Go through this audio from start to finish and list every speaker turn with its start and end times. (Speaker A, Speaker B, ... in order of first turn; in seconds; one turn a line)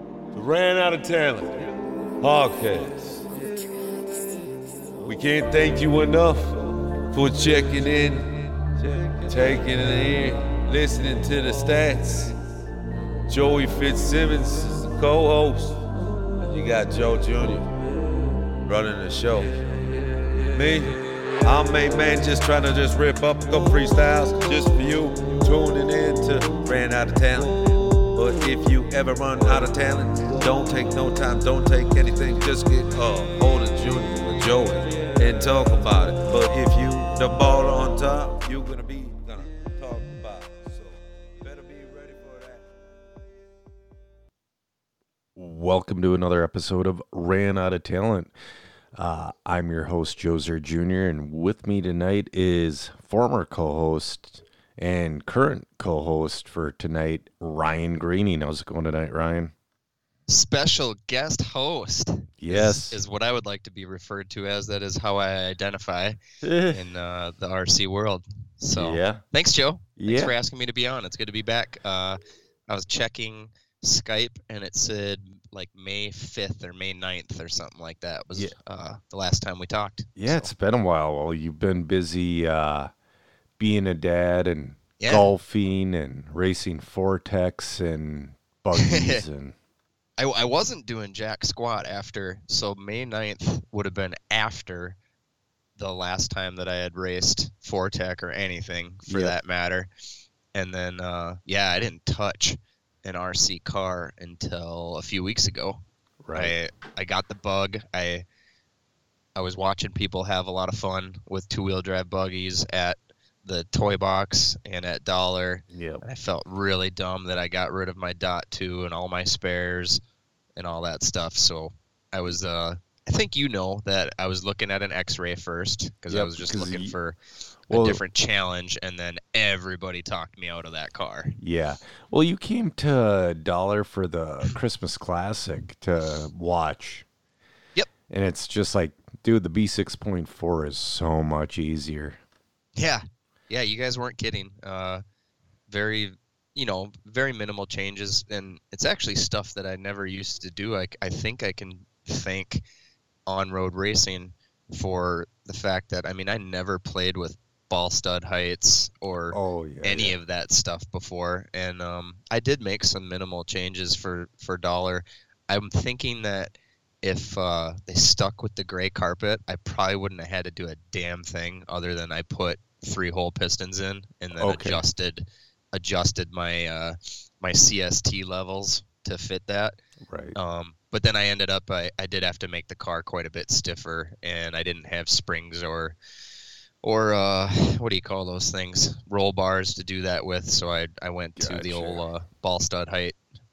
Speaker A: 0.3-3.3
Speaker A: 5.0-12.3
Speaker A: 13.3-15.8
Speaker A: 16.4-17.7
Speaker A: 18.6-19.6
Speaker A: 20.5-27.5
Speaker A: 28.1-42.6
Speaker B: 45.4-48.3
Speaker B: 48.9-59.5
Speaker C: 60.3-80.5
Speaker B: 62.4-63.0
Speaker B: 66.4-66.8
Speaker B: 68.7-69.2
Speaker B: 70.0-70.3
Speaker B: 80.2-82.9
Speaker B: 83.6-89.5
Speaker C: 85.0-85.3
Speaker C: 88.7-89.2
Speaker C: 90.2-95.0
Speaker C: 95.8-99.9
Speaker B: 99.1-99.3
Speaker C: 100.5-105.8
Speaker B: 106.2-106.5
Speaker C: 106.3-108.2
Speaker C: 109.3-120.0
Speaker B: 115.7-116.0
Speaker C: 120.5-127.2
Speaker B: 126.1-126.9
Speaker B: 127.7-128.0
Speaker C: 127.7-131.3
Speaker B: 131.4-137.1
Speaker B: 138.1-142.2
Speaker C: 142.8-145.0
Speaker C: 145.7-152.6
Speaker C: 153.3-179.8
Speaker B: 159.3-160.2
Speaker B: 174.3-174.8
Speaker B: 180.1-180.4
Speaker C: 180.3-185.9
Speaker C: 186.8-193.2
Speaker B: 191.4-192.0